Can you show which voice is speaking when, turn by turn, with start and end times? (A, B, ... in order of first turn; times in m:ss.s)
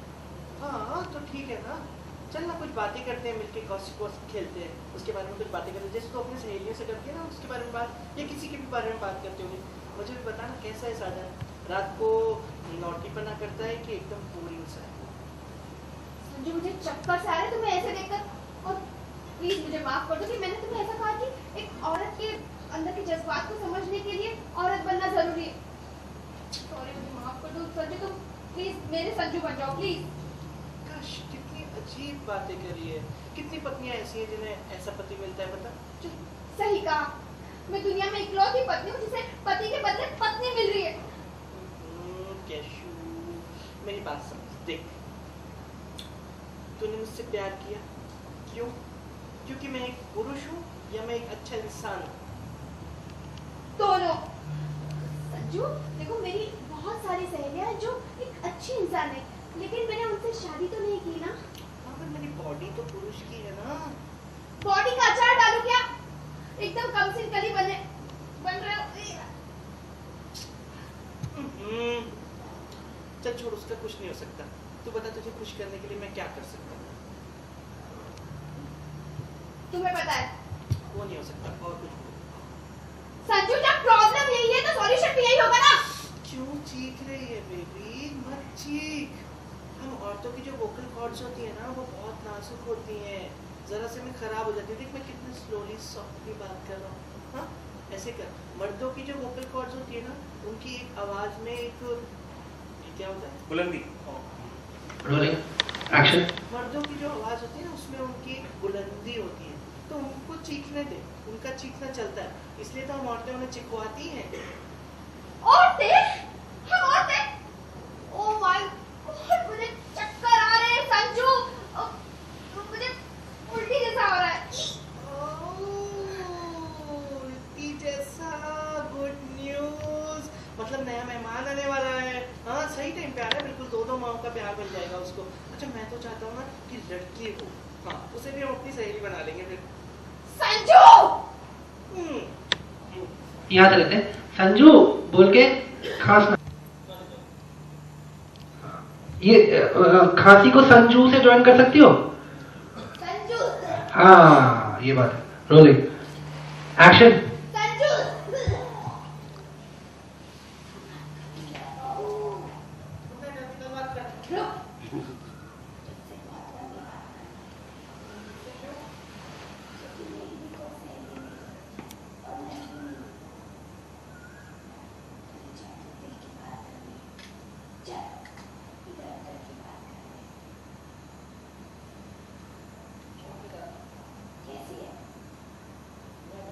0:00.6-0:15.1 A
0:16.3-0:18.8 B
0:19.4-0:25.5 B
0:26.6-0:30.1 B
0:30.8-0:35.8 A
0:36.0-0:37.1 B
0:37.7-0:41.0 B
0:41.5-0:45.0 A
0:46.8-0:47.8 A
0:48.4-0:48.8 A
0:49.4-0:52.1 A
0:53.8-0:54.2 B
0:55.0-1:01.4 B
1:01.8-1:04.0 A
1:04.6-1:05.8 B
1:06.6-1:07.8 B
1:08.4-1:09.3 B
1:11.3-1:12.2 A
1:13.2-1:16.9 A
1:19.7-1:20.3 B
1:20.9-1:22.5 A
1:23.2-1:25.9 B
1:26.2-1:29.2 A
1:29.8-1:42.0 A
1:42.8-1:44.2 A
1:45.0-1:45.4 C
1:45.9-1:46.3 C
1:46.5-1:54.3 A
1:55.4-1:57.2 B
1:58.1-2:01.9 B
2:02.5-2:04.8 B
2:04.9-2:19.7 A
2:20.3-2:21.2 B
2:21.9-2:22.4 A
2:23.5-2:26.4 C
2:26.9-2:27.2 A
2:28.6-2:32.0 C
2:32.9-2:33.8 B
2:33.9-2:35.8 C
2:36.8-2:37.2 C
2:37.5-2:38.7 B
2:43.1-2:44.3 A
2:44.3-2:44.5 B
2:50.0-2:51.2 B